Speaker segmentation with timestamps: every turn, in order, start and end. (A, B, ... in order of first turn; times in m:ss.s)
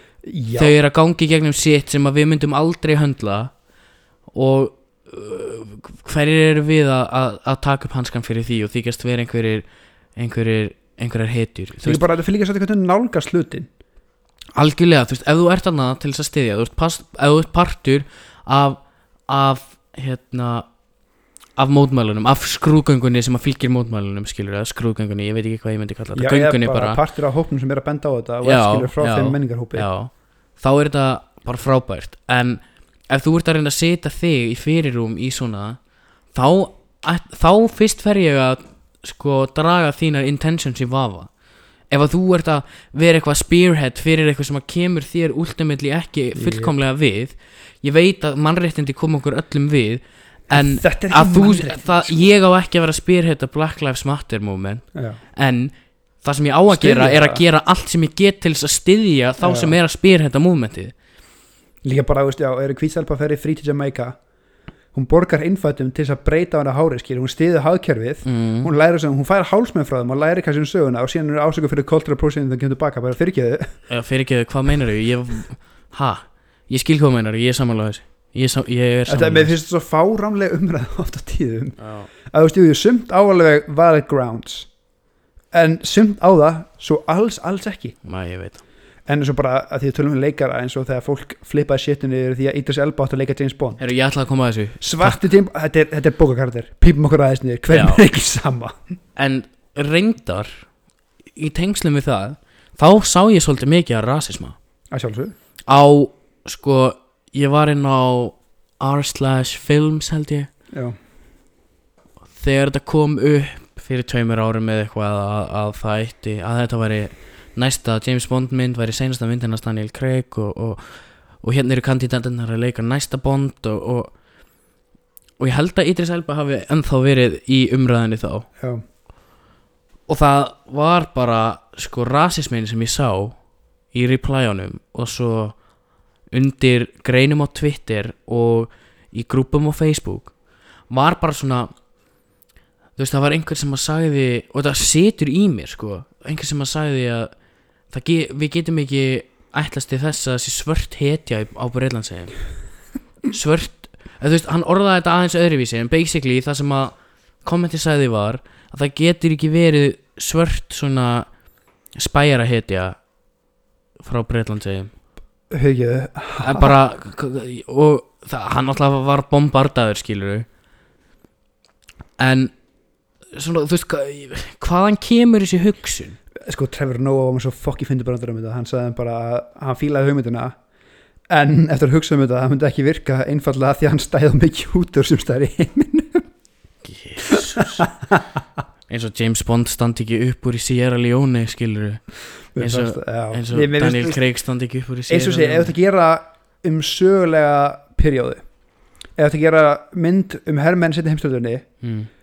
0:00.2-0:00.8 A
0:00.6-0:03.5 B
0:04.3-0:12.0 B
0:11.8-0:13.7 A
0:14.6-0:20.7 B
0:21.6-0:27.0 B
0:26.2-0:29.9 A
0:28.4-0:35.8 B
0:36.3-0:41.3 B
0:41.9-1:00.9 B
0:46.4-0:46.7 A
0:50.5-0:52.3 A
0:56.7-0:57.4 A
0:59.4-0:59.8 A
1:01.8-1:04.2 A
1:04.9-1:13.7 A
1:08.2-1:08.7 B
1:13.9-1:19.6 B
1:19.1-1:24.7 A
1:21.8-1:22.1 B
1:25.5-1:28.0 A
1:28.0-1:28.6 B
1:29.1-1:33.8 A
1:33.8-1:35.2 B
1:34.8-1:38.8 A
1:37.7-1:38.0 B
1:39.2-1:40.7 B
1:41.4-1:44.6 B
1:44.9-1:45.4 A
1:45.7-1:50.5 B
1:50.7-1:51.0 A
1:52.4-2:04.1 B
2:05.4-2:08.5 B
2:10.1-2:13.4 B
2:13.9-2:15.6 B
2:16.3-2:20.3 B
2:20.9-2:21.7 B
2:23.0-2:27.3 B
2:27.9-2:32.4 B
2:33.3-2:41.3 B
2:42.0-2:43.0 B
2:44.0-2:44.9 B
2:45.5-2:46.8 A
2:46.4-2:50.5 B
2:52.2-2:52.5 B
2:53.3-2:56.2 B
2:56.4-3:00.6 A
3:01.3-3:06.2 A
3:06.8-3:07.9 B
3:07.3-3:08.2 A
3:08.9-3:12.0 B
3:12.6-3:14.2 A
3:12.6-3:15.7 B
3:15.1-3:18.4 A
3:19.2-3:21.7 A
3:21.8-3:22.1 B